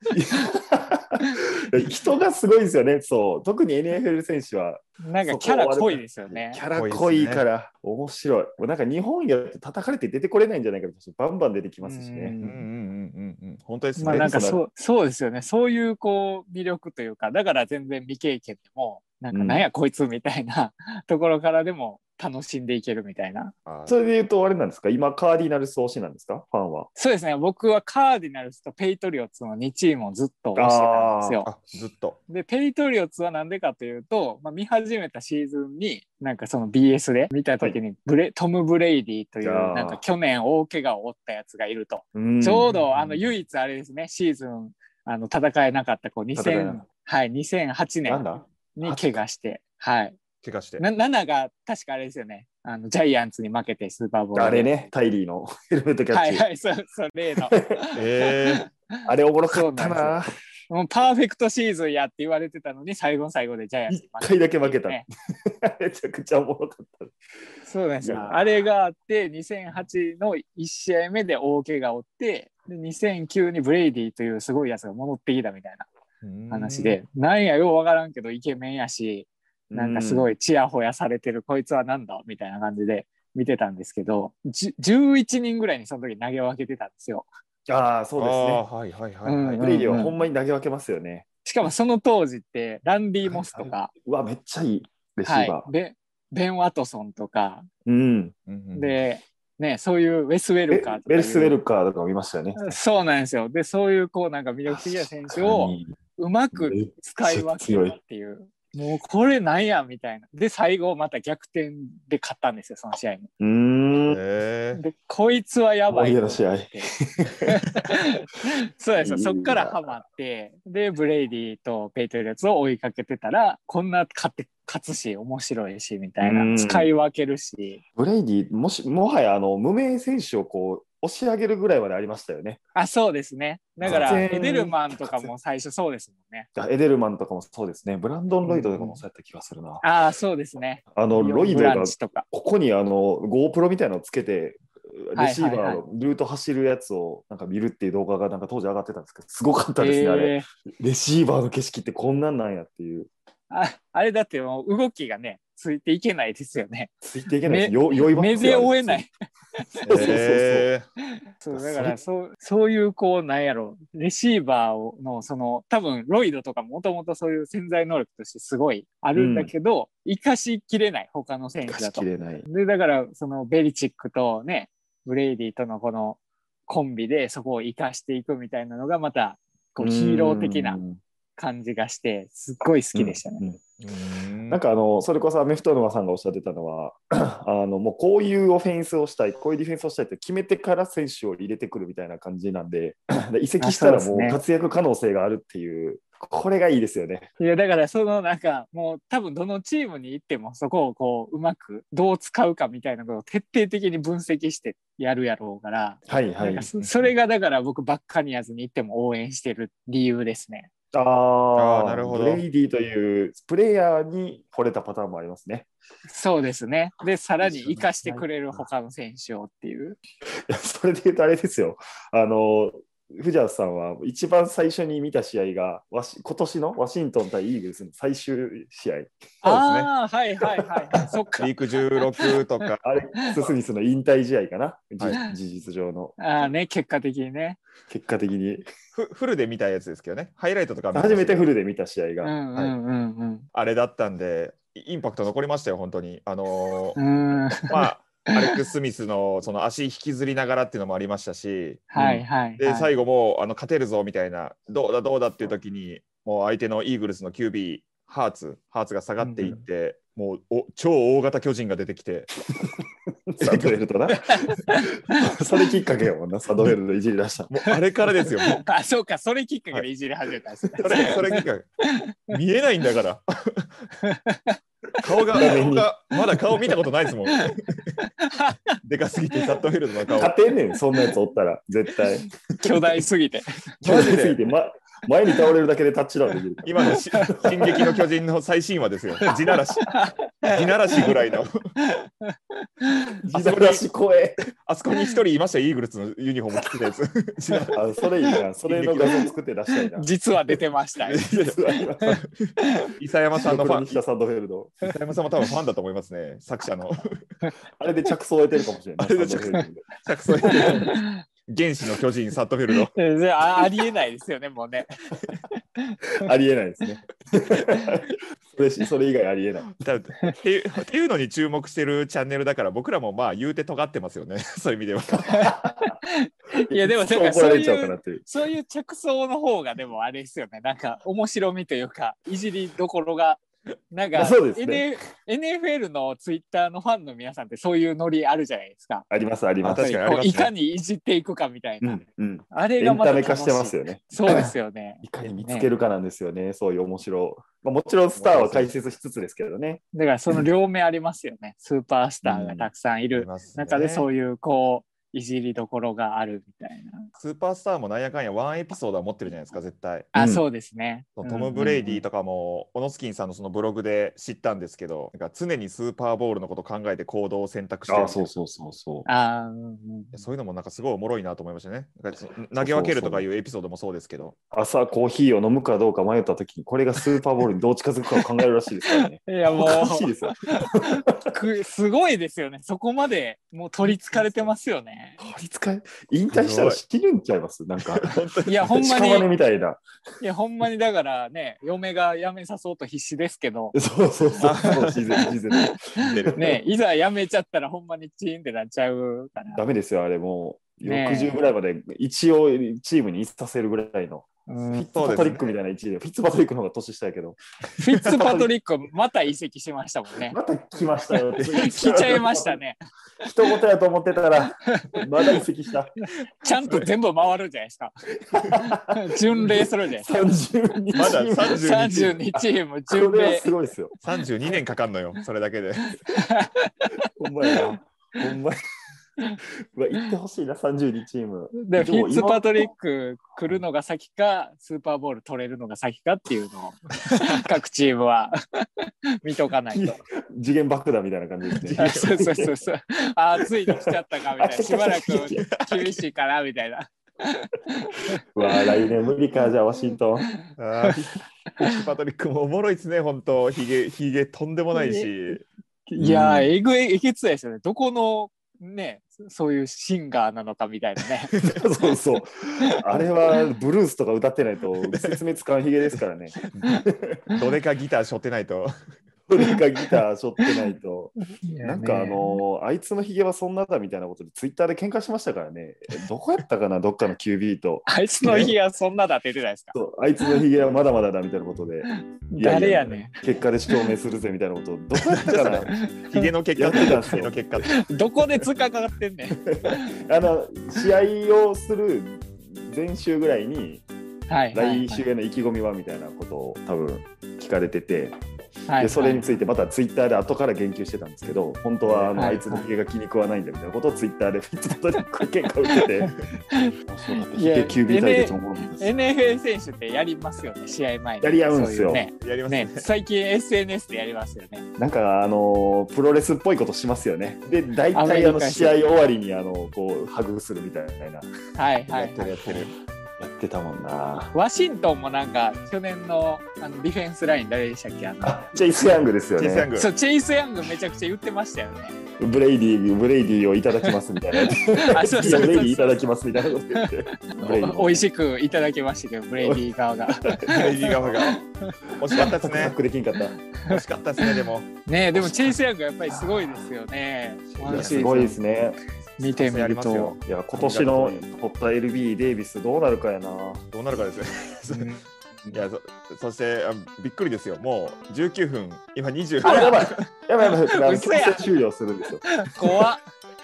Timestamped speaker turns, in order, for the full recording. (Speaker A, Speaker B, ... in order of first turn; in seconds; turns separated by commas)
Speaker A: 0.1-12.3, Speaker B: 5.0-6.6, Speaker C: 6.7-7.4, Speaker B: 11.8-12.6, Speaker C: 12.4-14.4, Speaker B: 13.9-23.5, Speaker A: 14.0-14.6, Speaker A: 19.3-19.6, Speaker C: 23.6-23.9, Speaker A: 23.9-26.9, Speaker B: 26.9-31.5, Speaker A: 30.5-31.4, Speaker C: 31.4-32.2, Speaker B: 32.3-50.2, Speaker A: 39.4-40.0, Speaker A: 42.1-42.7, Speaker C: 42.7-43.3, Speaker A: 46.3-46.8, Speaker A: 48.0-49.2, Speaker C: 50.4-50.8, Speaker B: 50.8-54.9, Speaker A: 54.3-56.4, Speaker B: 56.1-65.0, Speaker A: 57.3-57.9, Speaker C: 57.9-58.6, Speaker A: 59.0-60.3, Speaker A: 63.9-67.1, Speaker B: 67.6-75.9, Speaker A: 68.0-68.4, Speaker C: 76.2-77.0, Speaker B: 76.5-87.3, Speaker A: 79.7-80.3, Speaker A: 87.7-88.6, Speaker C: 88.2-89.9, Speaker B: 89.2-90.2, Speaker A: 89.6-91.2, Speaker B: 91.4-93.9, Speaker A: 93.2-95.7, Speaker B: 95.2-97.7, Speaker A: 97.8-98.3, Speaker C: 98.5-99.0, Speaker B: 98.7-101.6, Speaker A: 100.7-102.8, Speaker B: 102.5-113.3, Speaker A: 104.7-106.0, Speaker A: 106.5-108.0, Speaker A: 113.4-114.2, Speaker C: 114.1-114.8, Speaker B: 114.7-116.9, Speaker A: 115.9-117.8, Speaker B: 117.5-127.8, Speaker A: 119.0-120.0, Speaker A: 126.2-126.9, Speaker A: 128.0-132.6, Speaker B: 132.7-136.5, Speaker A: 133.8-135.3, Speaker A: 136.6-139.8, Speaker B: 138.4-139.0, Speaker B: 139.8-142.2, Speaker A: 140.9-153.1, Speaker B: 145.2-145.8, Speaker B: 149.8-150.5, Speaker B: 153.5-156.9, Speaker A: 157.0-159.1, Speaker B: 157.4-160.2, Speaker A: 159.7-160.7, Speaker C: 159.9-160.8, Speaker B: 161.4-180.8, Speaker A: 161.5-162.0, Speaker A: 169.1-169.5, Speaker A: 171.7-172.4, Speaker A: 179.8-181.0, Speaker B: 181.4-183.4, Speaker A: 182.9-183.6, Speaker C: 183.8-184.6, Speaker A: 184.5-197.3, Speaker B: 193.6-194.4, Speaker B: 197.4-210.7, Speaker A: 206.1-206.7, Speaker C: 206.8-207.1, Speaker A: 210.9-215.7, Speaker C: 211.5-212.4, Speaker B: 216.1-220.0, Speaker A: 217.4-218.6, Speaker A: 220.5-229.1, Speaker B: 229.4-232.7, Speaker C: 229.4-229.9, Speaker A: 230.6-231.0, Speaker C: 231.4-232.8, Speaker A: 232.8-236.2, Speaker B: 236.2-237.6, Speaker A: 237.9-238.6, Speaker C: 238.9-241.5, Speaker A: 240.9-242.3, Speaker B: 242.2-243.4, Speaker C: 243.5-247.0, Speaker B: 246.9-248.6, Speaker C: 247.7-262.3, Speaker B: 251.9-252.9, Speaker B: 259.2-259.5, Speaker A: 263.3-267.5, Speaker C: 263.4-263.8, Speaker B: 264.3-265.2, Speaker C: 267.5-268.6, Speaker B: 268.1-271.4, Speaker A: 270.8-271.2, Speaker C: 270.8-271.6, Speaker B: 272.0-272.4, Speaker C: 272.3-273.9, Speaker B: 274.0-274.6, Speaker C: 275.0-277.9, Speaker A: 275.4-275.9, Speaker B: 278.3-278.7, Speaker C: 278.8-280.3, Speaker A: 280.2-283.0, Speaker B: 282.6-284.1, Speaker A: 283.8-287.8, Speaker C: 283.8-284.4, Speaker C: 286.6-289.9, Speaker B: 286.9-288.0, Speaker B: 289.2-293.2, Speaker C: 290.4-291.5, Speaker C: 293.2-293.8, Speaker A: 293.3-294.4, Speaker C: 294.6-297.8, Speaker A: 297.7-300.1, Speaker C: 298.6-299.2, Speaker B: 299.8-301.2, Speaker C: 301.0-304.0, Speaker A: 301.3-302.2, Speaker B: 302.6-302.9, Speaker A: 303.4-304.9, Speaker C: 304.9-307.2, Speaker A: 307.8-309.8, Speaker C: 309.0-312.9, Speaker A: 310.4-310.9, Speaker B: 310.4-311.2, Speaker B: 312.8-314.9, Speaker B: 315.5-316.0, Speaker A: 316.2-319.7, Speaker C: 319.7-325.5, Speaker B: 325.3-325.6, Speaker A: 325.4-325.9, Speaker B: 326.1-333.4, Speaker A: 326.7-328.2, Speaker B: 333.9-339.1, Speaker A: 334.1-334.9, Speaker A: 339.1-339.9, Speaker C: 339.6-340.5, Speaker B: 339.7-345.7, Speaker A: 341.8-349.8, Speaker C: 348.1-348.8, Speaker B: 349.9-357.1, Speaker A: 352.2-352.7, Speaker C: 353.1-354.1, Speaker C: 357.2-360.1, Speaker B: 360.1-361.8, Speaker A: 360.1-360.4, Speaker C: 361.2-368.3, Speaker A: 361.3-362.0, Speaker A: 367.9-369.1, Speaker B: 369.1-370.2, Speaker C: 370.1-374.3, Speaker A: 372.5-373.3, Speaker A: 374.5-381.3, Speaker B: 379.0-385.2, Speaker A: 385.2-389.8, Speaker C: 386.3-386.8, Speaker C: 388.0-388.7, Speaker B: 388.4-389.3, Speaker B: 390.2-393.7, Speaker A: 393.7-396.5, Speaker C: 394.4-395.0, Speaker B: 394.5-399.6, Speaker C: 395.9-396.4, Speaker A: 399.5-407.4, Speaker B: 400.8-401.3, Speaker B: 404.5-404.9, Speaker C: 404.9-405.5, Speaker B: 407.8-410.4, Speaker A: 408.0-408.5, Speaker A: 410.3-412.6, Speaker C: 411.4-412.2, Speaker B: 411.6-412.8, Speaker A: 413.2-415.9, Speaker B: 414.6-415.4, Speaker B: 416.0-417.9, Speaker C: 416.6-416.9, Speaker A: 418.4-421.8, Speaker B: 418.6-420.1, Speaker C: 420.9-422.2, Speaker B: 421.5-423.5, Speaker A: 422.3-423.9, Speaker C: 424.0-425.9, Speaker B: 425.9-427.8, Speaker A: 427.2-428.6, Speaker A: 429.7-432.7, Speaker B: 431.6-440.0, Speaker A: 439.7-442.5, Speaker C: 441.6-442.1, Speaker B: 441.8-448.9, Speaker A: 443.7-445.5, Speaker C: 445.4-445.9, Speaker A: 448.3-450.2, Speaker C: 450.6-455.4, Speaker B: 454.7-455.3, Speaker B: 455.9-461.3, Speaker A: 456.0-456.5, Speaker A: 461.4-467.2, Speaker C: 464.8-465.1, Speaker C: 466.5-468.7, Speaker A: 469.3-478.5, Speaker B: 469.4-470.0, Speaker B: 471.4-472.4, Speaker B: 477.9-480.4, Speaker A: 479.7-485.7, Speaker B: 481.9-483.2, Speaker C: 485.2-487.8, Speaker B: 485.7-486.3, Speaker A: 486.6-487.6, Speaker B: 487.6-490.0, Speaker A: 489.5-493.8, Speaker B: 494.3-495.0, Speaker A: 494.5-498.2, Speaker B: 498.7-499.3, Speaker A: 498.7-506.1, Speaker C: 501.8-502.2, Speaker B: 502.1-502.6, Speaker A: 506.8-508.9, Speaker B: 507.3-514.6, Speaker A: 511.2-512.0, Speaker C: 512.1-512.8, Speaker A: 514.8-521.2, Speaker B: 517.9-518.8, Speaker B: 521.5-522.6, Speaker C: 521.9-522.7, Speaker A: 523.2-524.3, Speaker B: 524.3-528.5, Speaker A: 528.2-529.7, Speaker C: 529.4-529.9, Speaker B: 529.7-532.0, Speaker A: 532.2-538.0, Speaker B: 534.4-541.8, Speaker A: 539.4-541.2, Speaker C: 540.5-541.4, Speaker C: 542.0-542.8, Speaker A: 542.1-543.3, Speaker B: 543.6-548.4, Speaker C: 543.7-545.6, Speaker C: 547.6-548.0, Speaker A: 547.6-548.8, Speaker B: 549.2-550.2, Speaker C: 549.2-551.2, Speaker A: 550.2-553.6, Speaker C: 553.7-554.9, Speaker B: 554.6-555.6, Speaker C: 555.5-559.9, Speaker B: 559.4-561.4, Speaker A: 559.4-562.8, Speaker B: 562.2-563.0